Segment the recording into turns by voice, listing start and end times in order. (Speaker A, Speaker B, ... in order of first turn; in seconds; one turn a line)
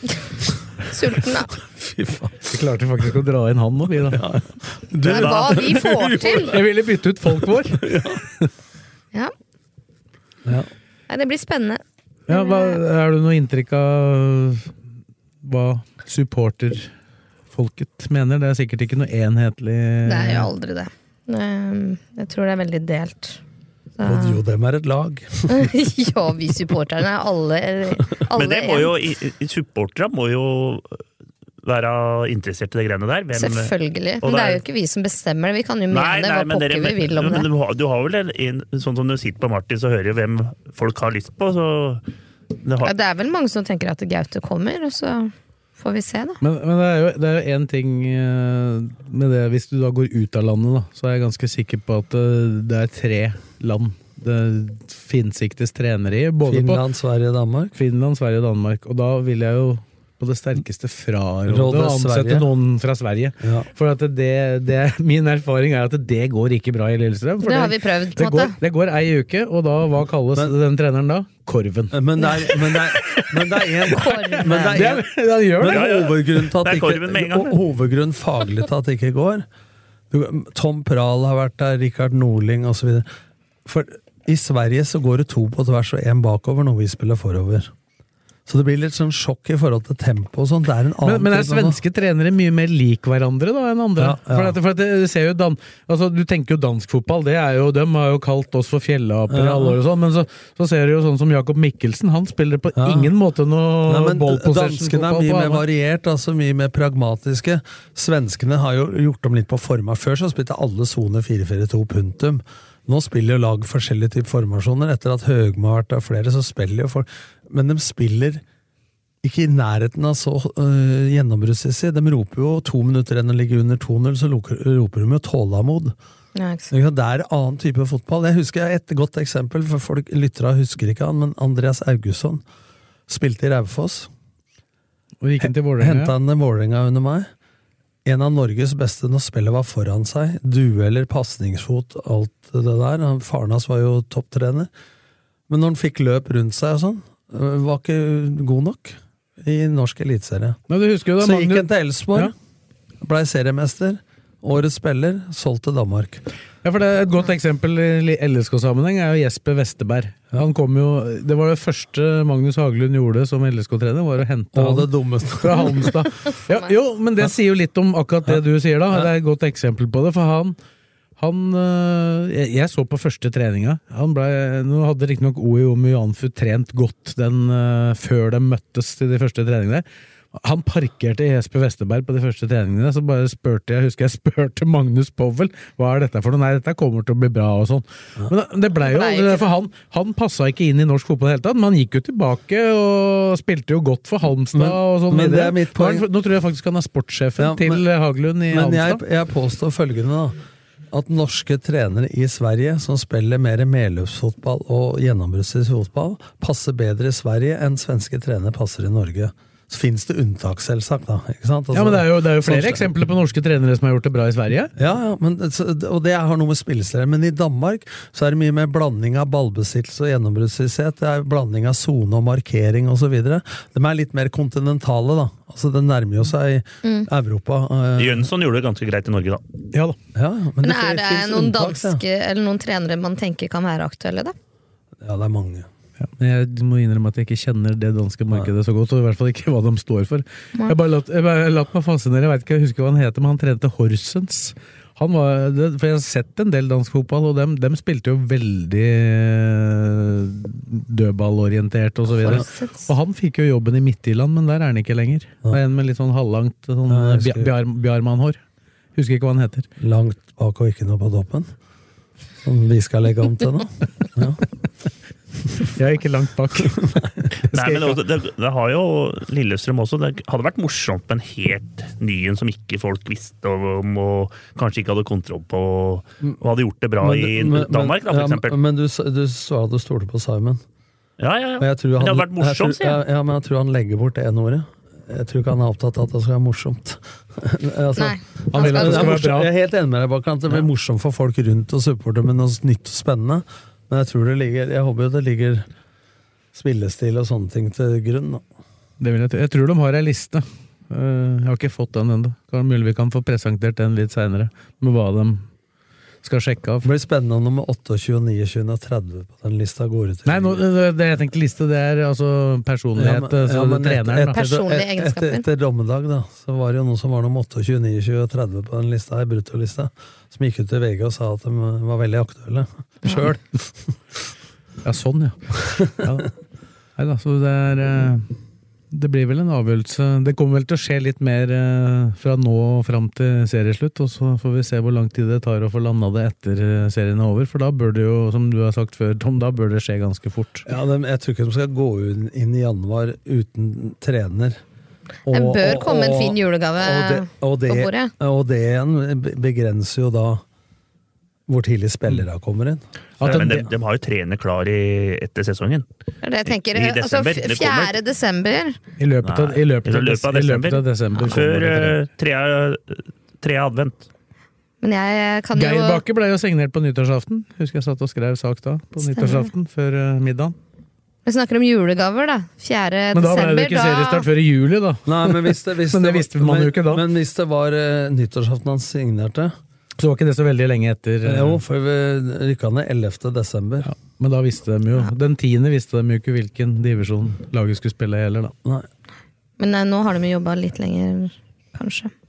Speaker A: 0.9-1.5
Speaker B: 1.6-2.5
Speaker C: 2.5-4.2
Speaker B: 4.1-6.6
Speaker A: 5.0-6.6
Speaker D: 5.1-5.6
Speaker C: 6.5-8.5
Speaker B: 7.7-8.2
Speaker A: 11.1-12.8
Speaker C: 12.3-14.7
Speaker C: 15.4-16.9
Speaker C: 17.5-20.5
Speaker A: 20.0-23.4
Speaker A: 24.0-24.4
Speaker B: 24.0-25.7
Speaker A: 25.5-28.9
Speaker D: 28.3-31.0
Speaker D: 31.6-34.6
Speaker A: 33.3-37.5
Speaker D: 35.9-42.0
Speaker D: 42.6-42.9
Speaker A: 42.8-46.4
Speaker C: 46.4-56.8
Speaker B: 56.4-57.8
Speaker C: 57.7-75.9
Speaker B: 61.5-62.5
Speaker B: 63.4-63.7
Speaker A: 67.4-68.5
Speaker B: 71.9-79.4
Speaker A: 73.9-74.8
Speaker D: 75.6-77.6
Speaker B: 80.1-83.1
Speaker B: 83.7-87.7
Speaker B: 88.5-91.8
Speaker C: 91.0-105.6
Speaker B: 94.0-94.6
Speaker B: 99.3-99.8
Speaker B: 102.8-103.1
Speaker B: 103.8-118.4
Speaker B: 119.2-125.9
Speaker A: 126.3-126.7
Speaker B: 126.7-132.4
Speaker B: 133.1-134.1
Speaker C: 135.2-136.1
Speaker B: 135.4-137.3
Speaker B: 138.1-144.7
Speaker B: 145.5-150.6
Speaker C: 150.7-152.3
Speaker B: 151.2-152.3
Speaker B: 153.0-156.2
Speaker C: 156.6-164.9
Speaker B: 164.5-165.9
Speaker C: 165.4-170.6
Speaker C: 171.2-199.0
Speaker A: 188.8-189.5
Speaker B: 194.5-196.1
Speaker B: 197.4-197.8
Speaker B: 198.5-200.3
Speaker B: 200.9-212.9
Speaker C: 211.7-214.7
Speaker B: 214.8-228.3
Speaker D: 228.0-229.4
Speaker B: 230.1-232.0
Speaker A: 230.6-234.3
Speaker B: 235.0-235.7
Speaker C: 236.0-258.4
Speaker A: 252.2-252.9
Speaker B: 256.9-257.5
Speaker C: 258.9-259.7
Speaker B: 259.8-261.5
Speaker B: 262.4-264.4
Speaker C: 265.7-268.0
Speaker B: 266.7-267.3
Speaker D: 267.5-278.6
Speaker B: 277.0-280.6
Speaker D: 281.2-283.0
Speaker B: 281.6-295.7
Speaker A: 287.9-289.2
Speaker C: 288.5-289.5
Speaker B: 296.5-298.4
Speaker C: 299.0-305.4
Speaker C: 306.2-306.9
Speaker B: 306.8-310.6
Speaker C: 310.2-314.4
Speaker B: 312.9-323.6
Speaker A: 314.3-315.4
Speaker C: 324.8-326.3
Speaker C: 327.0-328.3
Speaker C: 328.9-340.6
Speaker B: 340.6-344.6
Speaker B: 345.2-350.4
Speaker A: 345.3-348.1
Speaker B: 351.5-353.5
Speaker C: 353.2-353.7
Speaker D: 353.2-355.9
Speaker A: 356.2-358.8
Speaker D: 356.5-357.9
Speaker C: 359.0-362.0
Speaker D: 359.2-364.1
Speaker A: 364.8-366.0
Speaker C: 365.5-370.5
Speaker A: 369.1-369.5
Speaker A: 371.2-374.3
Speaker C: 373.1-377.1
Speaker B: 375.1-379.5
Speaker C: 380.0-381.6
Speaker B: 381.2-383.9
Speaker C: 383.8-388.5
Speaker A: 389.6-392.1